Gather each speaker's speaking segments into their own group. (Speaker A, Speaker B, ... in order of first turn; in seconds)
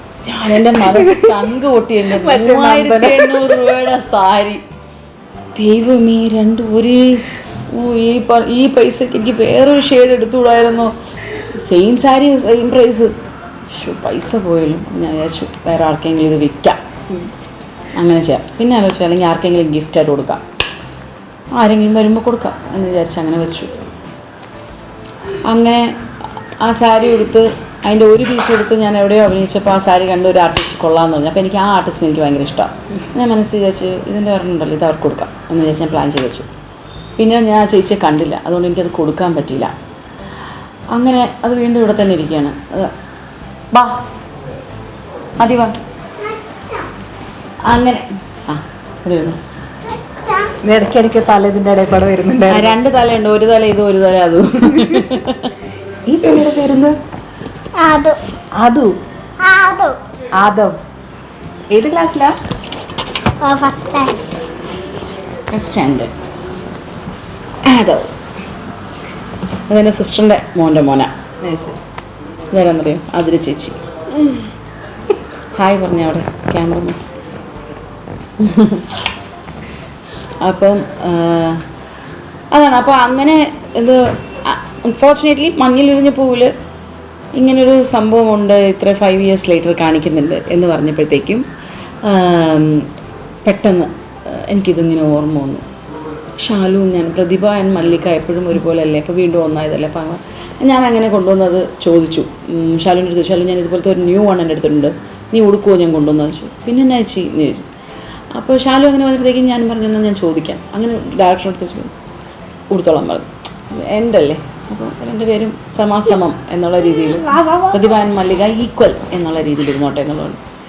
Speaker A: 0.2-4.6, 5.5-10.9, 11.6-13.1, 13.7-16.8, 17.9-20.4, 21.5-23.7, 25.4-25.9, 26.6-36.5, 37.2-39.7, 40.9-42.9, 43.7-44.0, 45.4-45.7, 47.6-49.4, 52.5-55.5, 65.5-66.1, 67.6-68.1, 69.7-71.6, 72.5-73.8, 75.5-77.0, 78.4-79.0, 80.4-81.6, 82.5-86.5, 87.3-91.4, 92.0-92.9, 93.4-95.6, 96.4-107.7, 108.3-111.9, 112.7-120.4
Speaker B: 0.7-1.4, 2.1-3.7, 50.6-52.8, 54.7-55.0, 56.0-57.0, 58.5-59.0, 60.4-60.7, 61.7-62.4
Speaker C: 50.0-50.5, 57.8-58.2, 59.4-60.0, 63.4-64.2